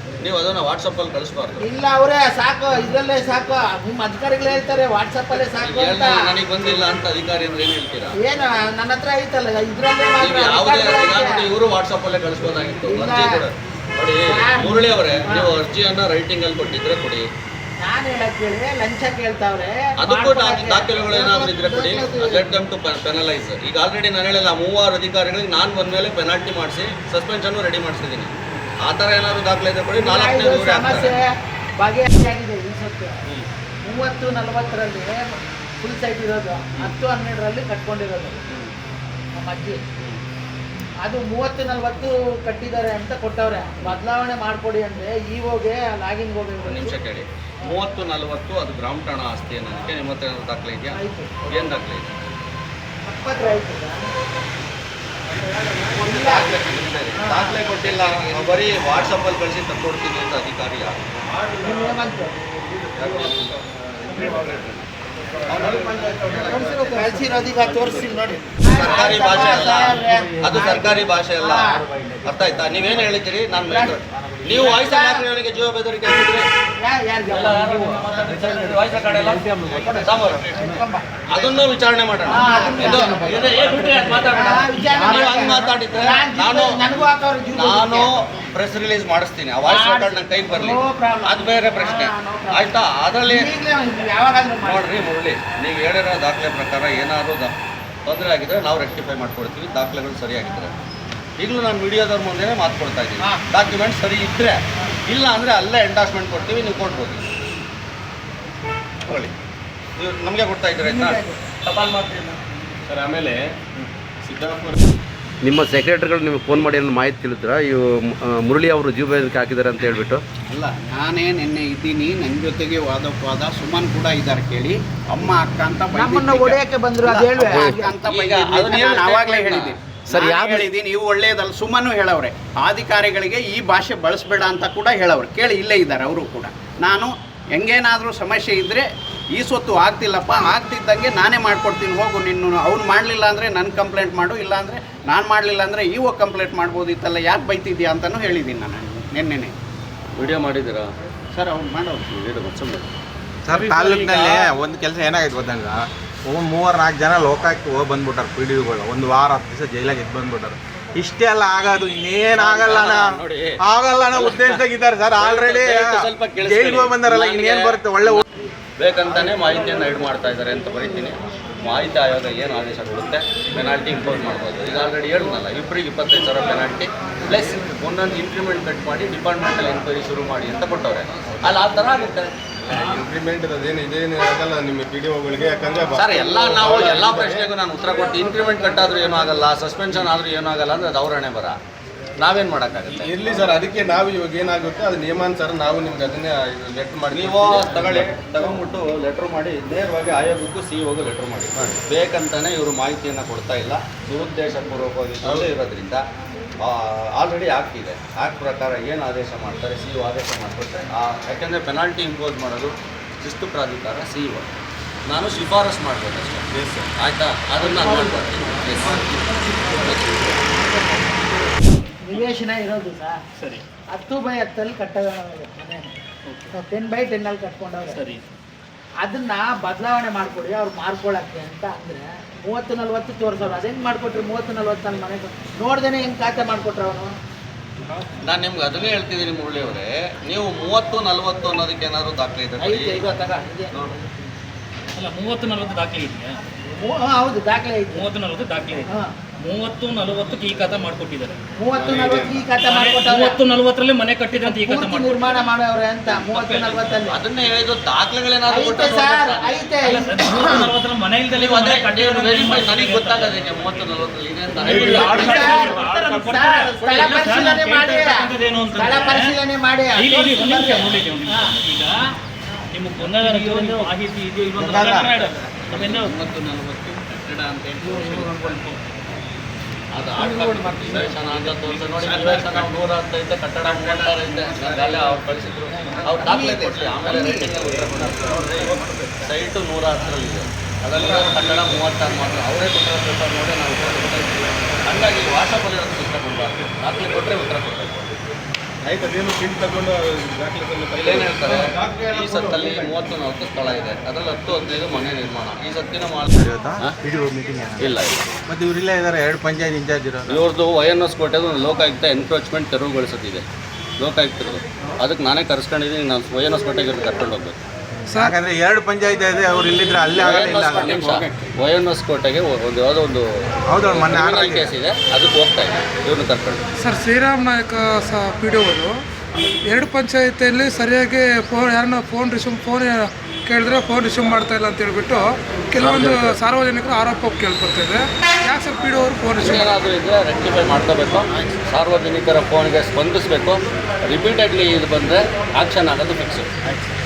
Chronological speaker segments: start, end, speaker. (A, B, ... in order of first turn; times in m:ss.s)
0:00.2-0:01.7 A
0:01.6-0:06.4 B
0:05.5-0:08.2 A
0:08.2-0:11.5 B
0:10.2-0:17.3 A
0:12.8-0:13.4 B
0:14.2-0:15.5 B
0:17.8-0:22.5 B
0:20.0-0:31.2 A
0:29.9-0:33.2 B
0:33.8-0:35.2 B
0:35.8-0:38.4 B
0:39.4-0:39.8 B
0:41.0-0:47.0 B
0:46.7-0:52.1 A
0:50.9-0:51.6 B
0:53.0-0:54.1 B
0:55.9-0:56.6 B
0:56.0-1:01.1 A
0:57.2-0:57.7 B
1:01.6-1:02.4 B
1:03.0-1:03.6 A
1:04.1-1:04.6 C
1:05.5-1:06.5 A
1:05.9-1:06.9 C
1:06.3-1:11.8 B
1:08.7-1:16.5 A
1:13.6-1:15.3 B
1:16.8-1:18.8 B
1:17.3-1:20.8 A
1:19.7-1:21.6 B
1:21.3-1:33.6 A
1:22.2-1:28.2 B
1:22.7-1:24.6 D
1:29.7-1:35.1 B
1:34.6-1:37.6 A
1:38.1-1:40.7 A
1:41.4-1:47.3 A
1:49.1-1:49.3 A
1:50.0-1:52.4 A
1:50.8-1:51.4 B
1:52.9-1:53.6 C
1:54.2-1:54.8 C
1:55.4-2:00.2 E
2:00.4-2:29.6 F
2:05.9-2:08.0 B
2:07.5-2:07.8 E
2:08.0-2:09.8 A
2:10.1-2:10.6 E
2:30.2-2:30.9 A
2:31.3-2:32.2 F
2:32.1-2:32.9 A
2:33.4-2:48.2 G
2:33.9-2:34.4 F
2:42.4-2:44.6 A
2:45.2-2:48.3 A
2:48.8-3:02.8 A
3:02.7-3:07.5 C
3:05.9-3:11.6 A
3:12.2-3:13.1 A
3:12.9-3:18.1 C
3:17.1-3:26.0 A
3:26.6-3:34.5 A
3:35.1-3:40.4 A
3:37.6-3:43.2 B
3:43.4-3:43.6 D
3:43.9-3:46.0 B
3:46.3-3:46.5 D
3:46.5-3:48.0 B
3:47.9-3:48.2 D
3:49.0-3:57.1 B
3:58.2-4:03.0 A
4:02.6-4:03.9 B
4:05.0-4:06.4 D
4:06.8-4:08.1 B
4:07.9-4:08.9 D
4:09.4-4:11.4 D
4:11.6-4:13.4 B
4:11.7-4:12.5 C
4:12.6-4:15.5 D
4:14.4-4:17.2 B
4:16.1-4:16.9 D
4:17.1-4:19.6 A
4:18.5-4:20.7 B
4:19.8-4:23.4 D
4:21.3-4:25.7 A
4:24.6-4:29.4 D
4:24.6-4:31.5 B
4:24.9-4:25.8 C
4:30.0-4:32.1 D
4:32.7-4:36.5 D
4:34.6-4:35.2 G
4:35.8-4:38.6 F
4:37.8-4:38.8 D
4:39.9-4:58.1 A
4:42.0-4:42.7 F
4:43.6-4:45.2 F
4:45.9-4:49.3 F
4:50.9-4:51.4 C
4:58.8-5:03.0 C
5:01.0-5:07.0 A
5:06.3-5:07.9 G
5:07.8-5:08.3 A
5:08.5-5:10.4 G
5:10.3-5:13.4 A
5:14.0-5:17.6 A
5:18.2-5:20.9 G
5:20.2-5:26.6 A
5:20.3-5:21.5 F
5:23.7-5:24.7 G
5:26.8-5:28.9 H
5:29.7-5:39.7 H
5:35.8-5:36.4 A
5:39.4-5:46.5 A